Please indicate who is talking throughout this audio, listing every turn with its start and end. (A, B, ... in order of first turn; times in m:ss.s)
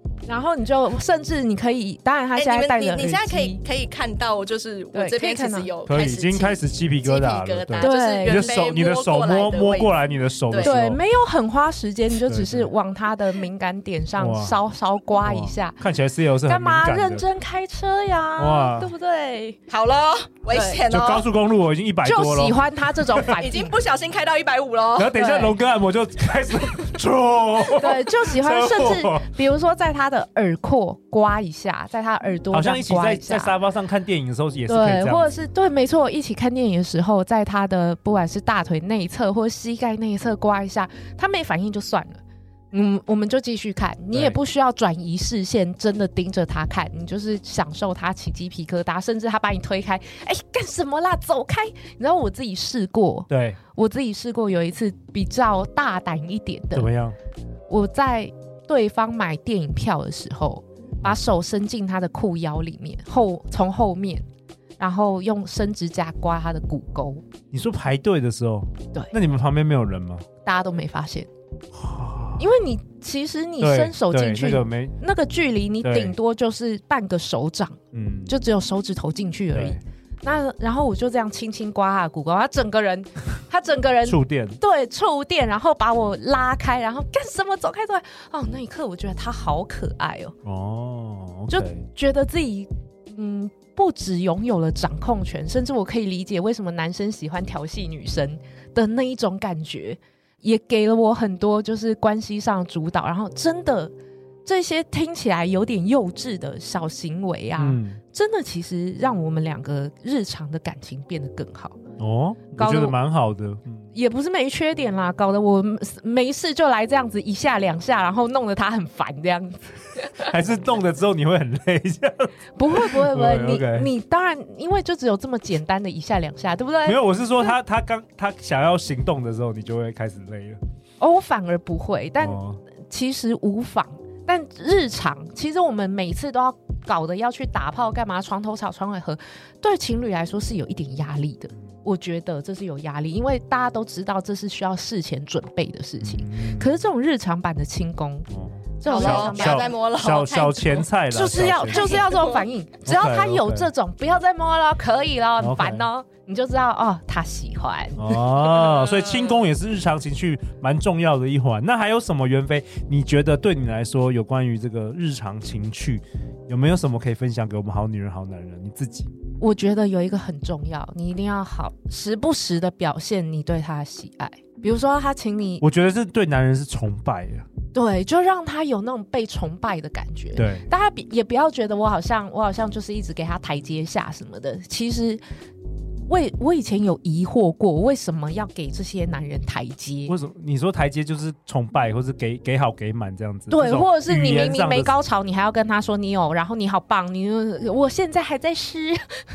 0:00.3-0:03.6 A
0:02.4-0:10.0 B
0:04.9-0:05.7 A
0:05.9-0:11.0 C
0:07.8-0:08.6 A
0:10.5-0:10.7 B
0:10.6-0:15.8 A
0:12.2-0:12.7 C
0:14.2-0:14.6 C
0:15.2-0:17.2 C
0:16.4-0:19.6 A
0:18.4-0:18.9 C
0:19.7-0:21.2 B
0:20.5-0:20.8 A
0:20.8-0:23.3 C
0:22.0-0:23.7 A
0:23.3-0:25.5 B
0:25.0-0:29.3 C
0:25.2-0:25.5 A
0:27.7-0:33.5 A
0:32.5-0:35.4 C
0:34.7-0:42.2 A
0:42.7-0:56.9 A
0:53.3-0:53.6 C
0:56.7-0:57.1 C
0:57.7-1:04.2 A
1:04.8-1:07.2 A
1:07.5-1:10.2 C
1:10.4-1:11.3 A
1:11.7-1:12.4 C
1:12.4-1:30.3 A
1:13.6-1:15.0 C
1:15.8-1:16.1 C
1:17.9-1:18.3 C
1:19.5-1:19.8 C
1:24.0-1:24.6 C
1:30.4-1:31.8 C
1:31.5-1:43.9 A
1:44.4-1:51.8 A
1:47.6-1:48.0 C
1:52.0-1:53.8 C
1:52.6-1:53.0 A
1:53.9-2:00.3 A
2:00.2-2:03.9 C
2:02.6-2:07.5 A
2:06.8-2:10.6 C
2:11.0-2:28.3 A
2:12.2-2:12.6 C
2:26.0-2:26.7 C
2:28.3-2:32.0 C
2:28.8-2:29.7 A
2:28.8-2:30.9 B
2:31.1-2:38.6 A
2:31.6-2:32.4 B
2:32.8-2:33.7 C
2:35.4-2:35.8 C
2:38.0-2:49.1 C
2:49.4-2:55.6 A
2:55.6-2:57.4 C
2:57.7-3:05.2 A
3:00.4-3:00.6 C
3:06.1-3:10.1 A
3:10.1-3:14.9 C
3:13.5-3:19.2 A